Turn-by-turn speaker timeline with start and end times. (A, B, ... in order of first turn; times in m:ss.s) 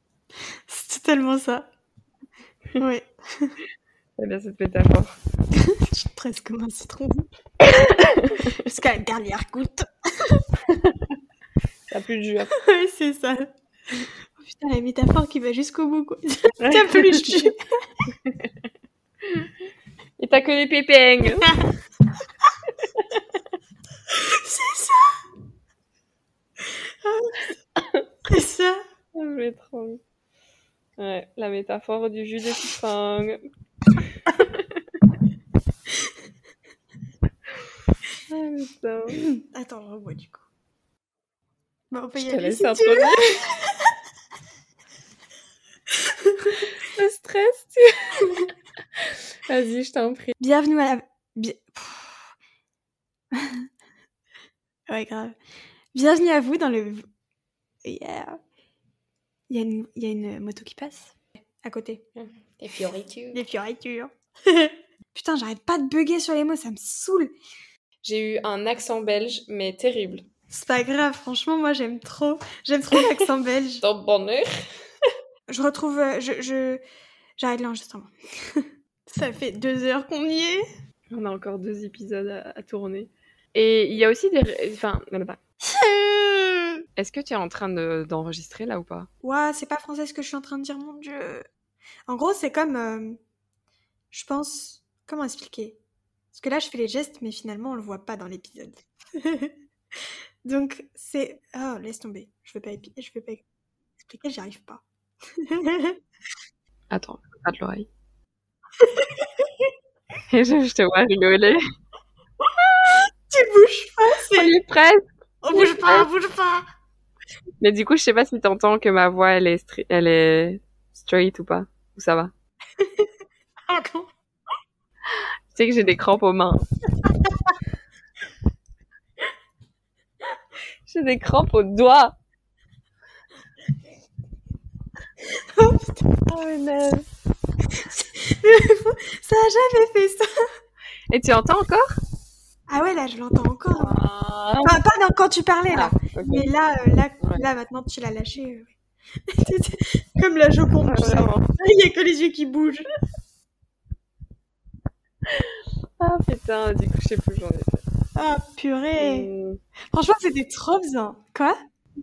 0:00.7-0:01.7 A
0:02.8-0:03.6 A
0:04.2-0:05.2 B
0:05.5-0:07.3 A
0:07.8-0:08.4 B
0:08.4-0:10.4 A
0:10.7-0:11.2 B
0:11.9-0:12.5 B
0:12.6-0:13.5 A
0:14.4-0:17.6 A
0:16.6-0:17.5 B
0:18.2-0:18.5 B
0:20.2-0:21.5 B
0:21.3-0:21.7 A
0:22.8-0:23.4 B
0:24.1-0:25.1 A
0:27.0-0:27.5 A
0:27.8-0:28.0 B
0:28.3-0:28.8 A
0:29.2-0:30.0 B
0:31.0-0:33.4 B
0:34.1-0:35.0 B
0:38.3-0:39.3 B
0:39.3-0:40.4 A
0:41.9-0:43.9 A
0:42.2-0:43.4 B
0:46.1-0:46.7 A
0:46.6-0:50.3 B
0:50.4-0:52.2 A
0:53.3-0:53.6 A
0:54.9-0:55.4 A
0:55.9-0:57.1 A
0:57.8-0:58.4 A
0:59.5-1:02.0 A
1:02.2-1:03.4 B
1:03.3-1:07.3 A
1:08.0-1:10.2 B
1:10.5-1:13.8 A
1:13.8-1:14.6 B
1:15.5-1:16.8 A
1:17.4-1:20.6 A
1:21.1-1:25.4 B
1:25.7-1:26.8 A
1:27.0-1:29.1 B
1:29.2-1:31.4 A
1:32.1-1:33.2 A
1:34.1-1:35.8 A
1:36.3-1:39.5 A
1:40.4-1:43.4 A
1:44.0-1:44.8 A
1:45.4-1:46.0 A
1:46.9-1:47.9 B
1:48.8-1:49.5 A
1:50.3-1:51.6 B
1:52.9-1:54.6 A
1:54.3-1:56.1 B
1:55.4-1:56.6 A
1:57.6-2:02.3 B
2:02.8-2:03.1 A
2:03.7-2:04.1 A
2:05.5-2:06.6 B
2:10.9-2:12.2 B
2:15.6-2:16.1 A
2:16.3-2:17.1 B
2:17.8-2:20.3 A
2:21.1-2:21.9 B
2:22.7-2:24.0 A
2:23.7-2:24.7 B
2:24.6-2:28.8 A
2:25.7-2:26.5 B
2:29.4-2:32.9 A
2:30.9-2:31.5 B
2:35.3-2:37.8 B
2:38.2-2:39.3 A
2:39.0-2:39.6 B
2:39.9-2:41.6 A